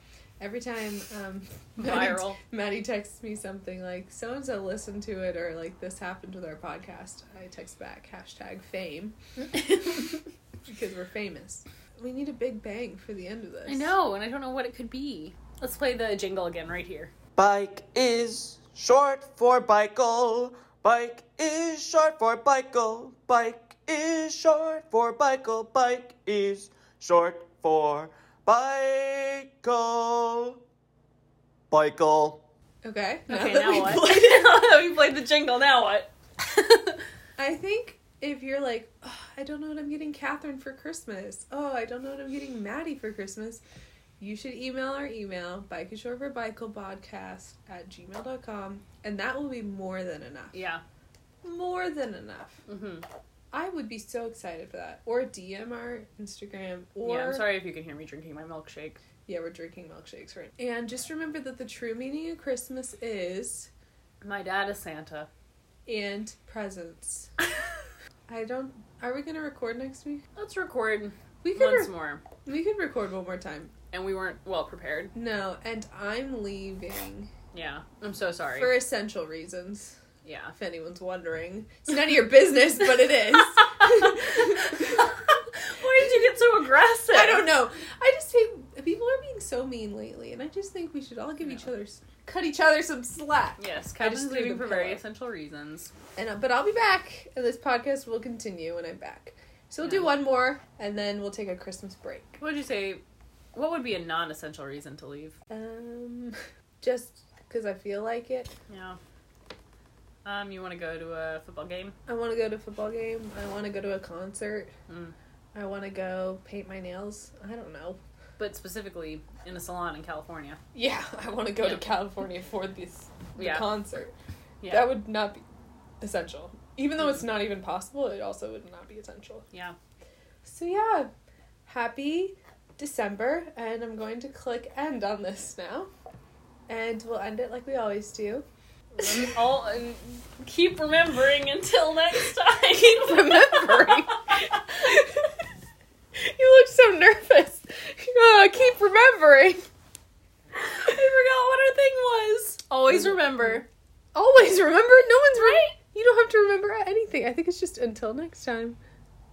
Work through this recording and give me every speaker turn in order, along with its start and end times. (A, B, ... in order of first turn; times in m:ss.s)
0:00.4-0:09.2 A
0:01.8-0:02.4 B
0:09.6-0:10.0 B
0:10.7-0:13.9 A
0:13.7-0:17.1 B
0:17.4-0:30.6 C
0:31.7-0:32.4 C
0:32.8-0:34.6 A
0:33.3-0:37.0 B
0:37.4-0:43.6 A
0:44.2-0:50.6 A
0:50.5-0:50.8 B
0:51.4-0:52.6 A
0:52.7-0:53.0 B
0:53.5-0:57.5 A
0:57.0-0:59.0 B
0:59.3-1:03.7 A
1:04.2-1:05.3 B
1:05.9-1:07.3 A
1:08.3-1:10.2 A
1:10.4-1:12.2 B
1:11.4-1:11.9 A
1:12.4-1:13.7 A
1:13.9-1:15.1 B
1:15.2-1:17.3 A
1:17.5-1:18.8 B
1:18.6-1:20.0 A
1:20.2-1:20.6 B
1:20.6-1:25.1 A
1:23.8-1:27.5 B
1:27.1-1:35.0 A
1:33.6-1:35.9 B
1:36.2-1:42.4 A
1:39.8-1:40.1 B
1:42.4-1:43.0 B
1:43.6-1:45.4 B
1:45.5-1:48.5 A
1:48.7-1:49.0 B
1:50.2-1:52.0 B
1:52.1-1:54.7 A
1:54.9-1:55.1 B
1:55.5-1:58.0 A
1:58.4-2:00.6 B
2:00.8-2:04.1 A
2:03.4-2:03.7 B
2:04.6-2:05.0 B
2:04.7-2:05.4 A
2:06.0-2:09.5 A
2:10.4-2:11.1 A
2:11.7-2:15.9 A
2:16.7-2:19.4 A
2:19.0-2:24.6 B
2:22.7-2:25.4 A
2:26.2-2:29.6 A
2:30.6-2:33.7 B
2:32.9-2:33.6 A
2:34.1-2:38.8 A
2:35.3-2:35.7 B